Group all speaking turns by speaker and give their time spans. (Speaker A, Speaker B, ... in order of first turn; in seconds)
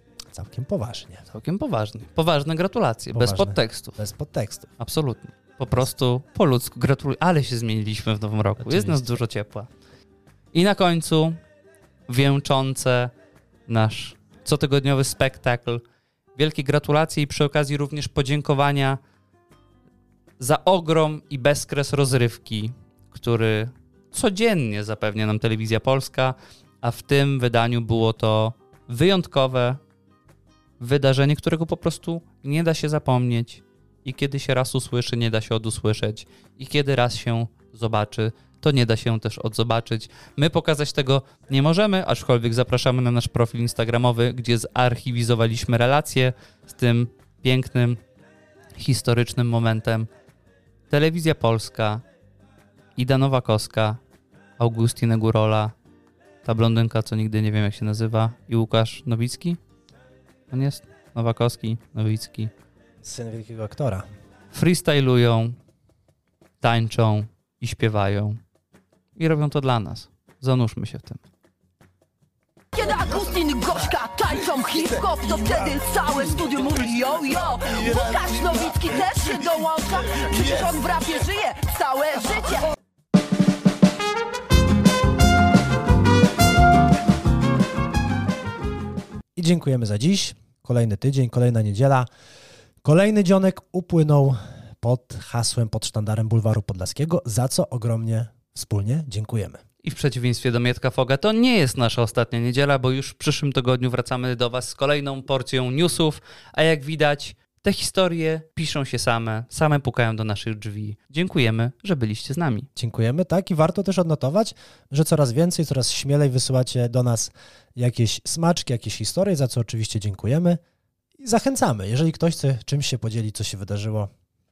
Speaker A: 0.3-1.3, 3.1-4.7, 8.6-9.1, 63.0-64.1, 89.3-92.1, 92.8-99.6, 112.8-120.6, 121.2-124.1
Speaker B: 1.3-4.0, 4.8-9.7, 10.5-11.4, 12.1-13.1, 13.7-15.8, 16.4-19.0, 20.4-29.8, 30.8-48.0, 48.8-50.1, 50.9-52.0, 53.0-54.0, 54.6-55.7, 56.4-59.6, 60.5-62.5, 64.5-65.6, 66.6-68.4, 69.2-71.2, 99.8-112.7
Speaker C: 72.7-82.7